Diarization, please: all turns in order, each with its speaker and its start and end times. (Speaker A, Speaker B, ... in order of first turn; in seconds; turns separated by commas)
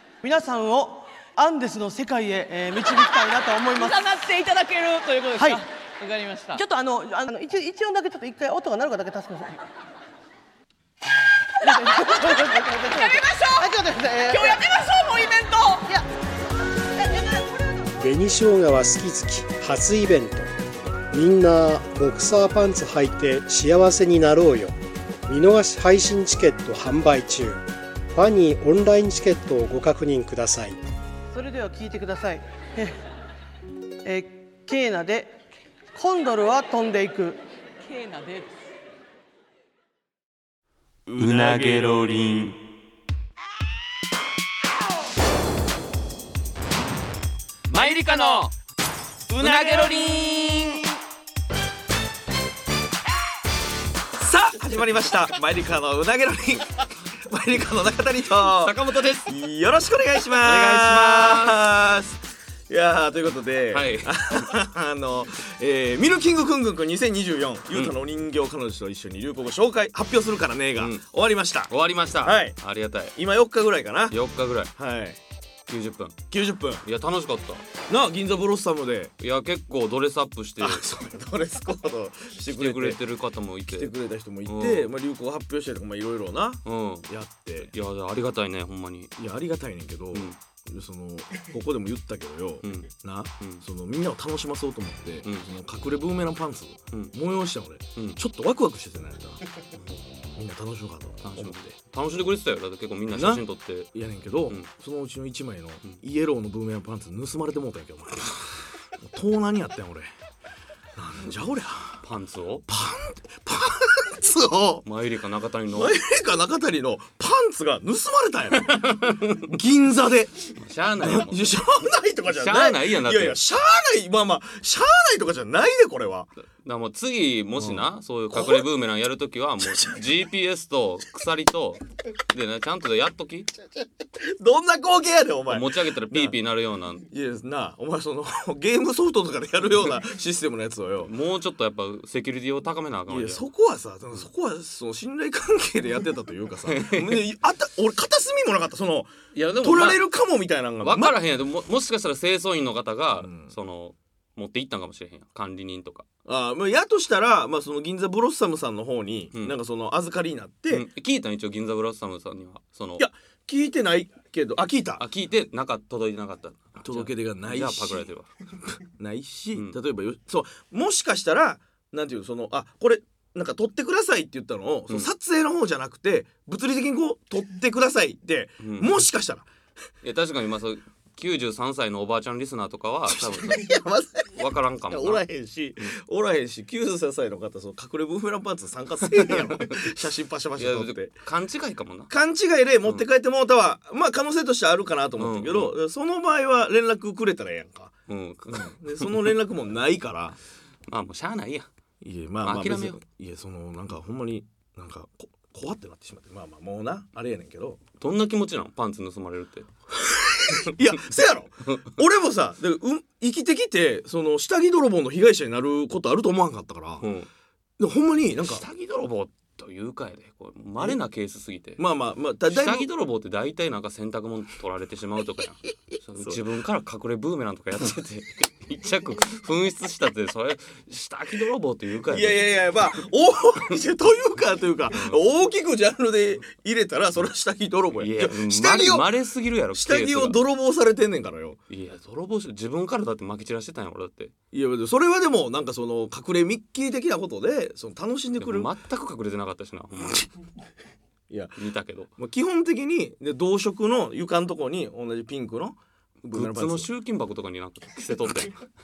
Speaker A: 0.2-4.1, Speaker B: 3.7-6.6, Speaker A: 5.4-5.6, Speaker A: 6.5-9.6, Speaker A: 11.6-14.6, Speaker B: 11.6-13.7, Speaker B: 14.2-15.9, Speaker C: 18.0-20.5, Speaker C: 21.1-24.7, Speaker C: 25.3-30.8, Speaker A: 31.3-33.0, Speaker A: 34.0-35.3, Speaker A: 35.9-37.4, Speaker B: 37.8-38.5, Speaker D: 41.1-42.6, Speaker D: 47.7-48.5, Speaker D: 49.3-50.8, Speaker E: 49.4-50.2, Speaker E: 54.1-72.6, Speaker D: 58.4-59.3, Speaker D: 60.3-61.6, Speaker D: 63.7-64.5, Speaker D: 70.8-71.0, Speaker D: 71.7-73.1, Speaker E: 73.2-74.2, Speaker D: 74.1-74.7, Speaker E: 74.7-75.2, Speaker D: 75.7-76.2, Speaker E: 76.3-76.8, Speaker D: 76.8-77.7, Speaker E: 77.9-79.1, Speaker D: 79.2-80.9, Speaker E: 80.6-83.0, Speaker D: 82.5-83.9, Speaker E: 83.7-87.7, Speaker D: 84.5-84.9, Speaker D: 86.6-87.1, Speaker D: 87.6-89.1, Speaker E: 89.2-99.4, Speaker D: 92.6-93.6, Speaker D: 97.9-98.2, Speaker D: 99.7-100.0, Speaker E: 100.3-101.7, Speaker D: 101.2-103.9, Speaker E: 103.1-103.4, Speaker E: 103.9-110.1, Speaker E: 111.0-112.0, Speaker D: 112.0-112.7, Speaker E: 112.7-114.8, Speaker D: 114.8-116.0, Speaker E: 115.7-120.5, Speaker D: 118.5-119.5, Speaker D: 120.5-121.7, Speaker E: 121.0-126.3, Speaker D: 122.2-123.4, Speaker D: 126.6-133.5, Speaker E: 127.6-128.7, Speaker E: 129.6-130.0, Speaker E: 134.1-136.4, Speaker D: 135.5-137.1, Speaker E: 137.1-141.1, Speaker D: 141.0-143.4, Speaker E: 143.1-151.2, Speaker D: 146.6-147.2, Speaker D: 149.3-150.0, Speaker D: 150.8-156.1, Speaker E: 153.1-153.5, Speaker E: 156.2-160.9, Speaker D: 160.7-163.0, Speaker E: 163.0-165.0, Speaker D: 165.0-168.3, Speaker E: 166.8-168.1, Speaker E: 168.8-179.5, Speaker D: 169.5-169.8, Speaker D: 178.6-179.0, Speaker D: 180.0-185.2, Speaker E: 183.1-191.1, Speaker D: 189.2-189.9, Speaker D: 190.6-192.1, Speaker E: 192.1-197.9, Speaker D: 195.2-195.7, Speaker D: 198.1-199.3, Speaker E: 198.4-200.4, Speaker D: 200.9-201.7, Speaker E: 202.0-207.8, Speaker D: 202.4-203.0, Speaker D: 208.0-209.7, Speaker E: 210.0-217.0, Speaker D: 217.0-217.3, Speaker E: 217.8-218.7, Speaker D: 218.4-221.8, Speaker E: 221.8-222.9, Speaker D: 222.5-232.5, Speaker E: 232.1-239.1, Speaker D: 234.9-235.2, Speaker D: 238.0-240.4, Speaker E: 239.7-241.6, Speaker D: 241.7-244.3, Speaker E: 244.5-248.7, Speaker D: 248.4-250.3, Speaker E: 251.3-251.6, Speaker D: 251.6-252.1, Speaker E: 252.2-256.9, Speaker D: 256.3-258.7